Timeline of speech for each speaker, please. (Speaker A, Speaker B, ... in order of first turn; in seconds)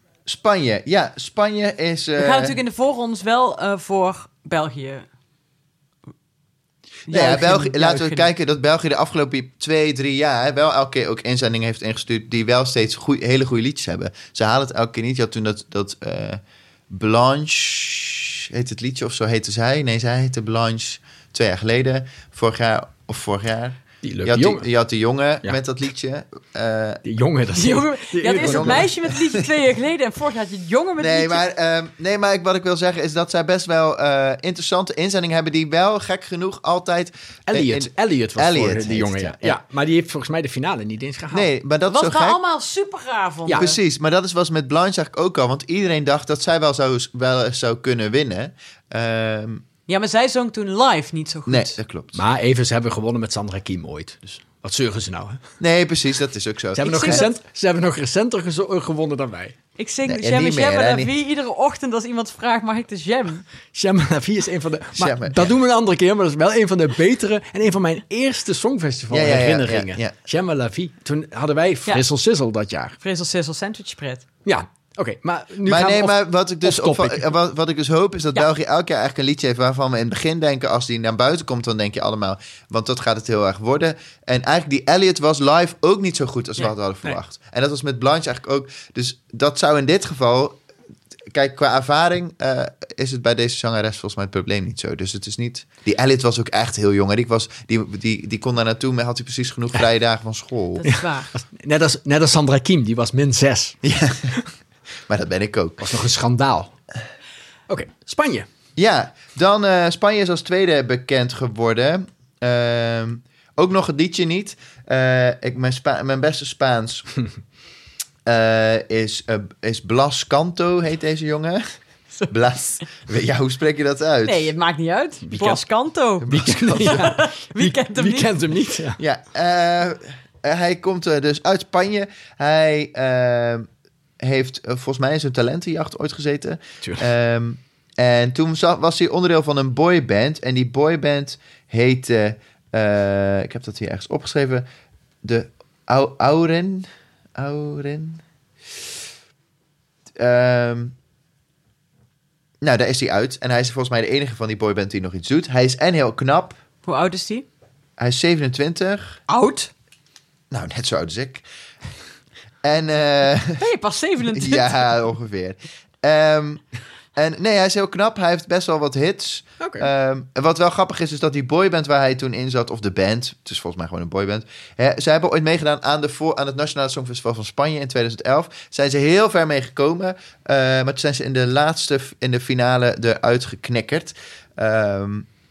Speaker A: 0.2-2.6, 7.1-27.0, 28.4-29.4, 31.0-39.6, 41.3-42.4, 43.5-49.6, 51.5-52.2, 55.6-57.2, 60.0-61.1, 65.0-65.5, 69.1-70.1, 75.7-90.6, 91.3-100.9, 103.8-104.4, 105.1-105.9, 108.8-117.1, 118.2-121.6, 122.3-124.5, 126.2-127.1, 129.0-133.7, 134.2-144.7, 145.2-148.2, 150.2-150.9, 152.6-156.6, 158.0-159.2, 160.5-161.4, 162.6-163.6, 164.3-166.6, 167.1-185.3
Speaker B: 2.2-5.0, 7.1-8.3, 27.5-31.4, 41.9-43.8, 49.9-51.8, 56.8-57.3, 59.8-63.4, 73.0-74.2, 100.8-101.3, 124.2-128.3, 156.8-157.4, 159.3-159.7, 163.6-164.8
Speaker C: 24.0-24.6, 27.0-28.9, 37.5-41.5, 52.1-55.4, 56.8-59.5, 63.7-73.0, 74.4-77.3, 100.9-103.8, 105.8-106.7, 107.7-108.5, 125.2-125.6, 126.3-129.0, 169.6-169.9